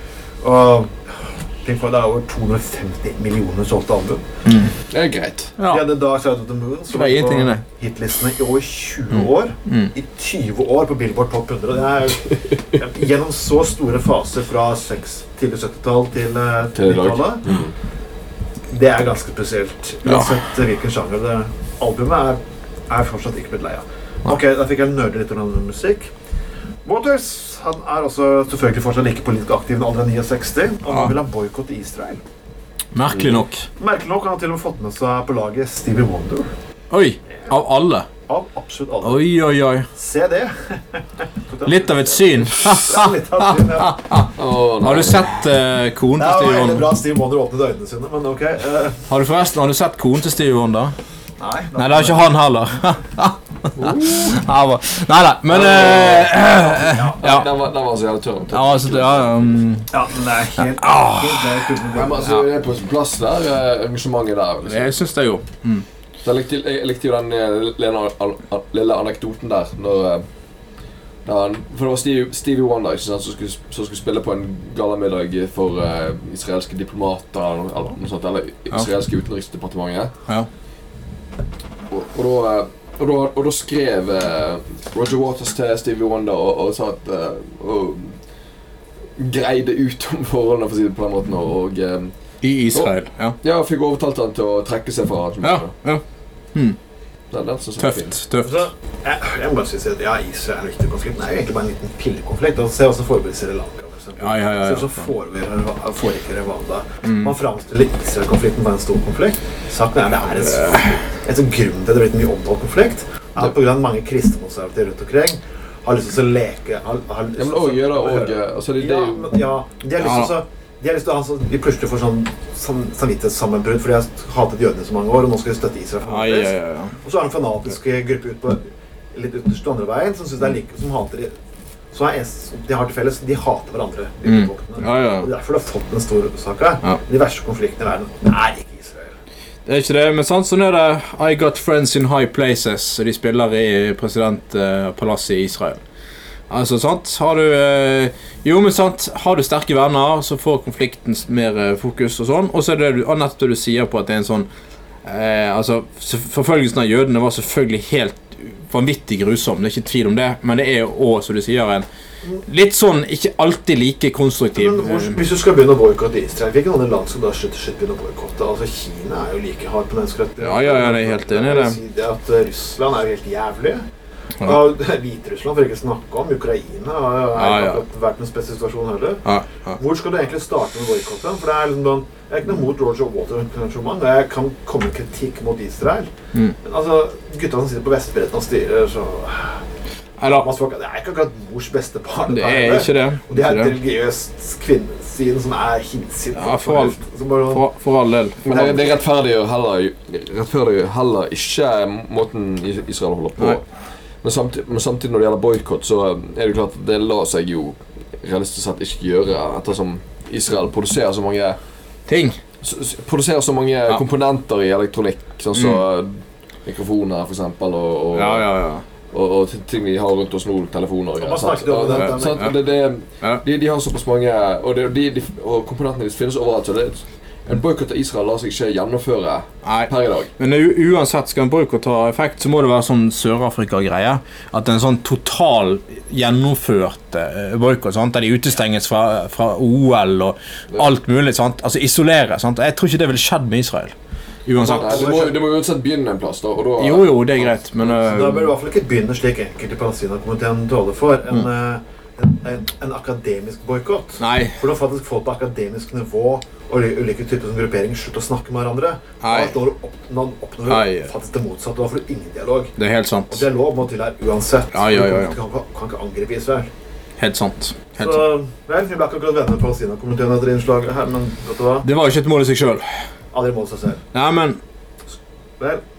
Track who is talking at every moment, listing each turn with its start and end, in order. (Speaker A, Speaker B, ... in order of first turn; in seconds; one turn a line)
Speaker A: 0.4-1.0
Speaker A: 1.6-4.2
Speaker B: 4.5-4.7
Speaker C: 4.9-5.5
Speaker B: 5.6-5.8
Speaker A: 5.7-17.6
Speaker B: 6.9-7.6
Speaker B: 9.7-9.9
Speaker C: 16.7-17.7
Speaker A: 18.7-26.1
Speaker A: 26.8-32.2
Speaker B: 32.9-33.7
Speaker A: 33.8-36.5
Speaker B: 36.9-38.1
Speaker A: 38.3-39.3
Speaker B: 39.0-39.9
Speaker A: 39.9-44.1
Speaker B: 41.6-46.9
Speaker C: 44.3-45.2
Speaker A: 46.1-49.0
Speaker B: 49.1-50.9
Speaker A: 51.4-52.4
Speaker B: 51.8-57.5
Speaker C: 53.8-54.3
Speaker C: 55.5-59.6
Speaker A: 56.4-57.4
Speaker B: 58.5-60.0
Speaker A: 59.9-62.4
Speaker B: 60.6-61.8
Speaker C: 61.9-64.9
Speaker B: 64.6-65.8
Speaker C: 66.2-70.2
Speaker C: 71.2-80.1
Speaker C: 81.9-88.2
Speaker C: 89.2-92.1
Speaker B: 92.4-93.3
Speaker C: 92.7-95.7
Speaker B: 95.4-96.0
Speaker C: 97.3-98.2
Speaker B: 97.8-98.7
Speaker A: 98.4-131.3
Speaker B: 104.2-105.1
Speaker B: 107.0-107.3
Speaker C: 117.4-119.3
Speaker B: 120.0-120.3
Speaker B: 126.0-127.0
Speaker A: 131.9-139.1
Speaker B: 134.2-135.3
Speaker B: 139.7-145.8
Speaker B: 146.5-154.5
Speaker B: 155.0-161.8
Speaker B: 162.4-165.2
Speaker A: 164.5-173.8
Speaker B: 170.4-171.8
Speaker A: 174.4-186.1
Speaker B: 177.3-177.8
Speaker B: 179.2-179.8
Speaker A: 186.6-189.6
Speaker B: 190.2-190.5
Speaker A: 190.2-197.7
Speaker B: 192.3-193.8
Speaker B: 196.3-197.0
Speaker B: 197.5-198.4
Speaker C: 198.4-203.6
Speaker A: 198.5-199.0
Speaker C: 204.2-211.6
Speaker B: 212.1-212.4
Speaker C: 212.6-216.1
Speaker B: 215.5-215.8
Speaker C: 216.7-218.5
Speaker B: 218.1-218.8
Speaker C: 219.1-230.3
Speaker A: 221.2-222.6
Speaker B: 222.1-222.4
Speaker B: 229.6-243.9
Speaker B: 244.4-245.3
Speaker A: 244.6-245.4
Speaker C: 244.6-247.2
Speaker B: 246.8-248.5
Speaker A: 247.4-262.7
Speaker B: 254.2-254.6
Speaker B: 259.2-259.5
Speaker B: 260.7-261.1
Speaker B: 262.8-263.4
Speaker A: 263.3-266.7
Speaker B: 264.7-265.4
Speaker B: 267.2-268.2
Speaker A: 268.0-271.9
Speaker B: 271.8-272.9
Speaker A: 273.3-274.0
Speaker B: 274.1-274.6